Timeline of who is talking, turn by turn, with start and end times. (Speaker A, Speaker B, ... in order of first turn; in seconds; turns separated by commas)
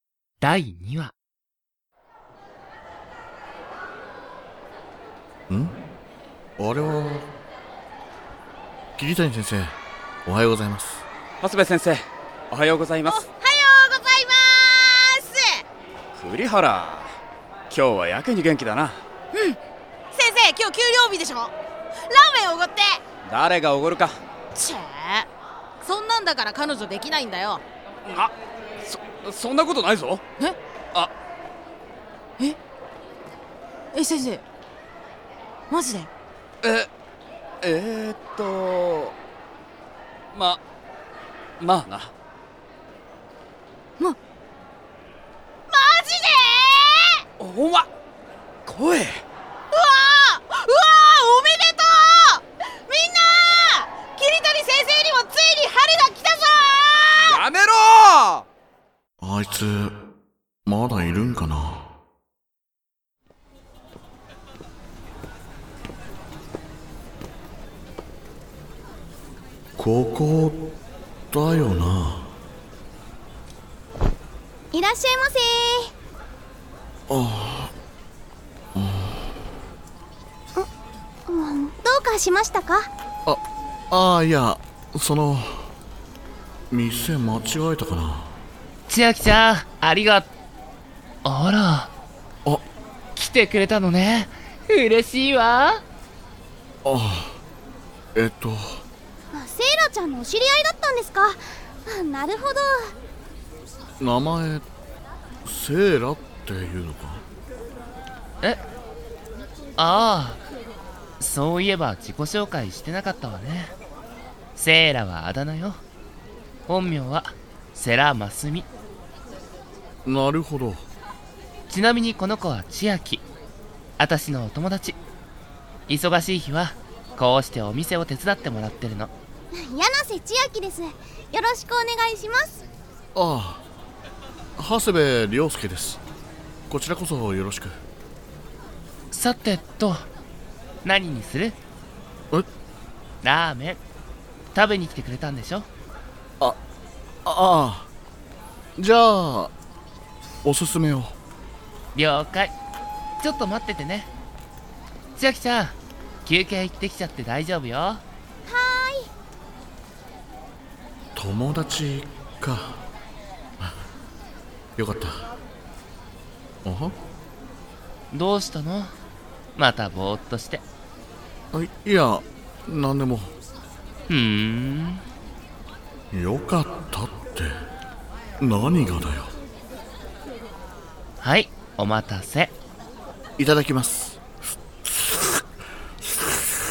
Speaker A: 0.4-1.1, Speaker B: 5.5-5.8, Speaker B: 6.6-7.3, Speaker B: 9.0-11.0, Speaker C: 11.4-13.2, Speaker D: 13.0-15.6, Speaker C: 16.1-17.1, Speaker C: 17.7-19.0, Speaker D: 20.1-23.0, Speaker C: 23.2-24.1, Speaker D: 24.5-25.3, Speaker D: 25.8-27.6, Speaker C: 28.8-30.2, Speaker D: 33.9-34.4, Speaker D: 35.7-36.1, Speaker C: 36.6-36.9, Speaker C: 37.6-39.1, Speaker C: 40.3-40.6, Speaker C: 41.6-42.1, Speaker D: 45.7-47.2, Speaker C: 47.4-47.9, Speaker C: 48.6-49.2, Speaker D: 49.7-57.4, Speaker C: 57.2-58.5, Speaker B: 59.2-60.0, Speaker B: 60.6-61.9, Speaker B: 69.8-70.8, Speaker B: 71.3-72.3, Speaker E: 74.7-75.9, Speaker B: 77.1-77.7, Speaker B: 78.8-79.2, Speaker E: 81.3-82.9, Speaker B: 83.2-85.7, Speaker B: 86.7-88.3, Speaker A: 88.9-90.3, Speaker A: 91.2-91.9, Speaker A: 93.2-95.8, Speaker B: 96.8-97.4, Speaker B: 98.1-98.8, Speaker E: 99.3-102.9, Speaker B: 104.0-104.7, Speaker B: 105.4-107.2, Speaker A: 109.8-110.4, Speaker A: 111.2-113.7, Speaker A: 114.5-115.8, Speaker A: 116.7-118.7, Speaker B: 120.0-120.9, Speaker A: 121.7-123.2, Speaker A: 124.0-125.0, Speaker A: 125.9-129.1, Speaker E: 129.6-132.6, Speaker B: 133.1-133.6, Speaker B: 134.6-136.0, Speaker B: 136.7-137.8, Speaker A: 139.1-140.0, Speaker A: 140.8-141.6, Speaker A: 143.2-143.8, Speaker A: 144.5-145.7, Speaker B: 147.2-147.9, Speaker B: 148.8-149.5, Speaker B: 150.4-151.2, Speaker A: 151.9-152.6, Speaker A: 153.2-154.1, Speaker A: 155.2-158.0, Speaker E: 158.5-159.1, Speaker B: 161.1-162.8, Speaker B: 164.8-165.2, Speaker B: 166.6-166.9, Speaker A: 168.1-168.9, Speaker A: 169.6-170.6, Speaker B: 171.5-173.3, Speaker A: 174.1-175.0, Speaker B: 176.1-177.6, Speaker B: 178.4-179.3, Speaker A: 181.2-182.5, Speaker B: 183.4-184.2